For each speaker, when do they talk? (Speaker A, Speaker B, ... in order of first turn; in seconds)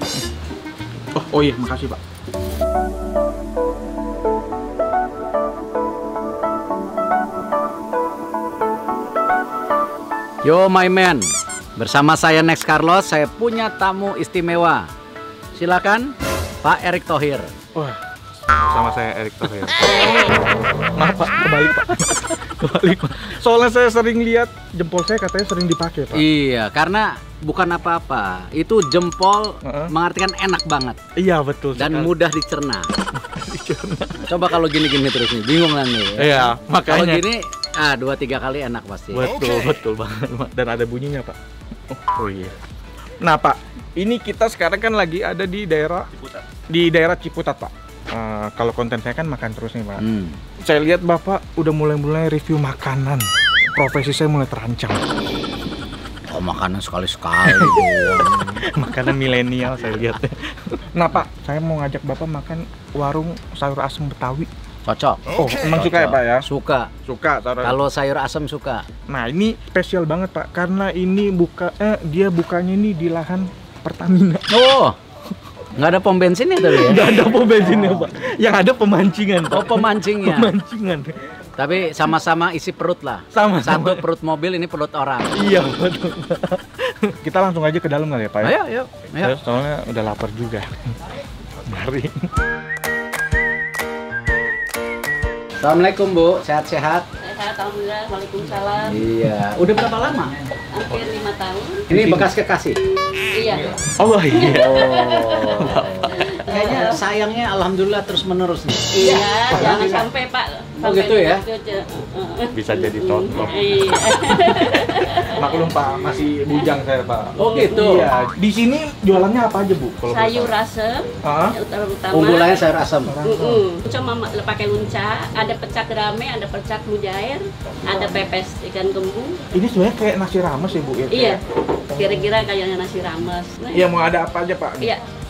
Speaker A: 1.1-2.0, 17.8-20.3, 20.9-26.2, 29.6-29.9, 31.2-32.1, 33.2-34.4, 36.2-37.2, 39.1-41.4, 41.9-42.6, 43.2-50.0, 50.6-55.0, 57.4-64.5, 65.3-66.5, 67.1-67.8, 69.1-74.5, 76.7-81.2, 83.3-84.0, 85.4-88.5, 89.2-90.7, 91.7-92.3, 101.9-102.3, 103.9-106.3, 109.5-109.9, 112.5-113.6, 115.4-120.5, 121.2-121.6, 123.1-123.7, 129.5-131.4, 133.7-134.9
Speaker B: 10.4-14.9, 15.6-17.5, 26.1-31.0, 31.8-32.9, 34.2-39.3, 50.0-50.4, 56.3-58.6, 64.9-66.9, 67.6-68.8, 74.5-75.0, 75.8-77.0, 79.5-80.5, 81.6-85.3, 88.4-89.3, 95.6-97.0, 98.9-100.3, 101.9-102.8, 104.4-105.9, 106.5-110.1, 110.8-111.4, 117.4-118.1, 122.1-123.1
Speaker C: 97.2-99.0, 100.7-101.9, 103.3-103.8, 104.3-107.0, 109.0-115.8, 116.5-116.8, 117.4-117.9, 120.1-122.6, 123.2-129.4, 131.1-133.9